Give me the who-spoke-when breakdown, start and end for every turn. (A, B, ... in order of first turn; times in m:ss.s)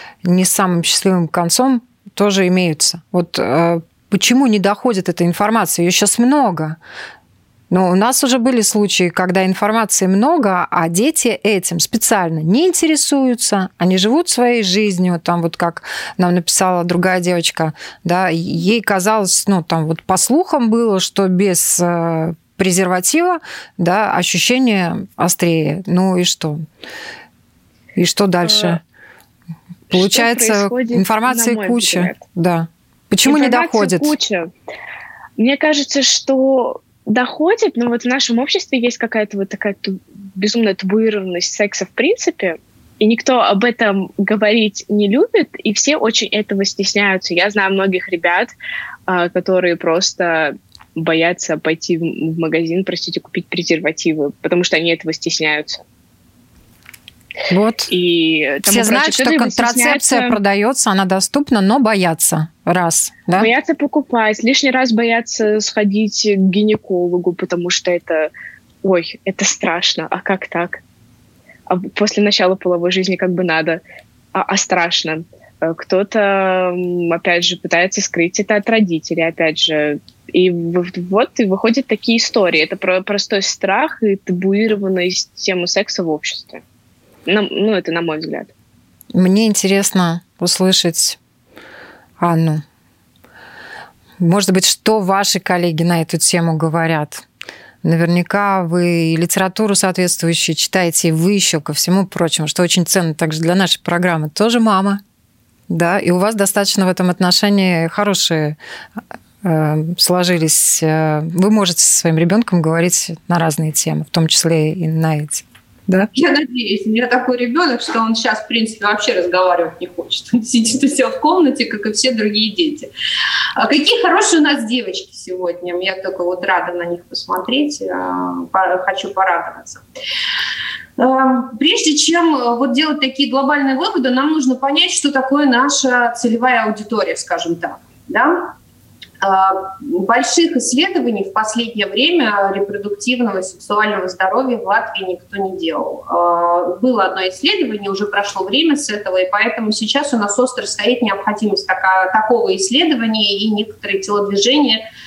0:00.2-0:06.8 A
0:07.7-0:26.6 A
0:28.0-0:28.8 A
0:28.4-0:28.8 B
0:29.9-0:32.2 B
0:29.9-0:34.1 A
0:33.2-0:34.5 B
0:35.4-0:48.5 B
0:49.1-0:55.8 B
0:57.5-0:57.9 A
0:57.9-1:00.4 B
0:58.7-1:03.5 A
1:03.4-1:08.3 B
1:08.8-1:10.8 B
1:11.7-1:13.8 B
1:14.3-1:26.6 B
1:27.3-1:28.5 B
1:29.1-1:31.2 A
1:32.2-1:32.6 A
1:34.2-1:37.2 A
1:37.8-1:45.0 A
1:45.7-1:48.6 A
1:49.4-1:56.1 A
1:56.1-2:02.9 C
2:03.6-2:09.8 C
2:11.0-2:18.5 C
2:19.2-2:34.8 C